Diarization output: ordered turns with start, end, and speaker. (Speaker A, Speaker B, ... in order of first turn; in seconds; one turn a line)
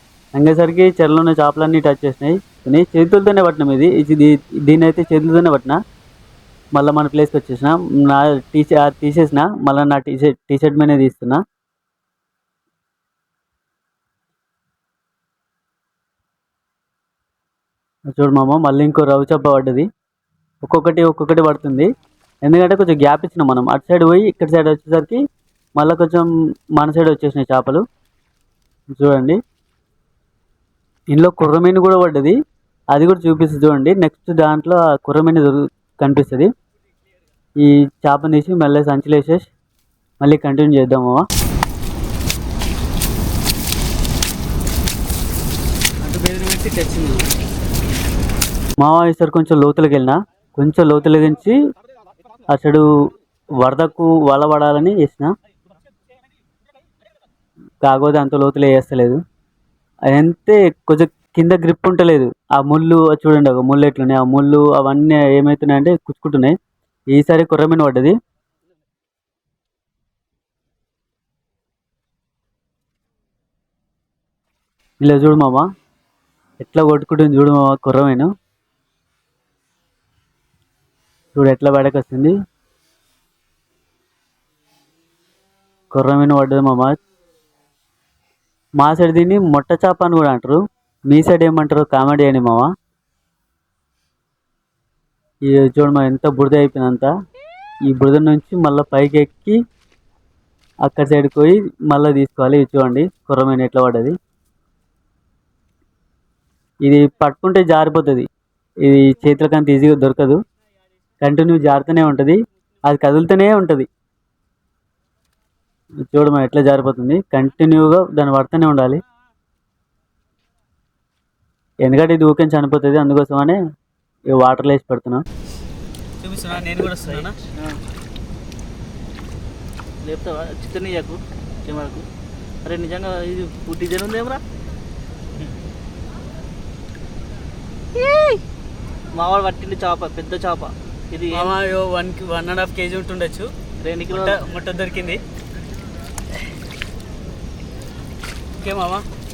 Speaker A: 0.3-5.8
Speaker A: 6.8-11.4
Speaker A: 18.1-19.9
Speaker A: 20.6-21.9
Speaker A: 22.4-25.2
Speaker A: 25.8-27.8
Speaker A: 29.0-29.4
Speaker A: 31.1-32.4
Speaker A: 32.9-36.5
Speaker A: 37.6-39.5
Speaker A: 40.2-41.2
Speaker B: 46.0-47.3
Speaker A: 48.8-51.6
Speaker A: 52.5-52.8
Speaker A: 53.6-55.3
Speaker A: 57.8-59.2
Speaker A: 60.1-66.6
Speaker A: 67.1-68.1
Speaker A: 75.0-75.7
Speaker A: 76.6-78.3
Speaker A: 81.3-82.3
Speaker A: 85.9-87.0
Speaker A: 88.8-92.7
Speaker A: 95.5-97.1
Speaker A: 97.9-99.6
Speaker A: 100.8-104.2
Speaker A: 106.8-108.3
Speaker A: 108.8-110.4
Speaker A: 111.2-113.9
Speaker A: 116.1-119.0
Speaker A: 121.8-123.6
Speaker A: 124.3-125.2
Speaker B: 126.2-127.3
Speaker C: 127.0-127.8
Speaker C: 130.0-132.1
Speaker C: 132.6-134.4
Speaker C: 137.9-138.4
Speaker C: 139.1-141.6
Speaker B: 141.4-143.5
Speaker C: 143.8-144.5
Speaker B: 144.2-145.2
Speaker B: 148.6-149.1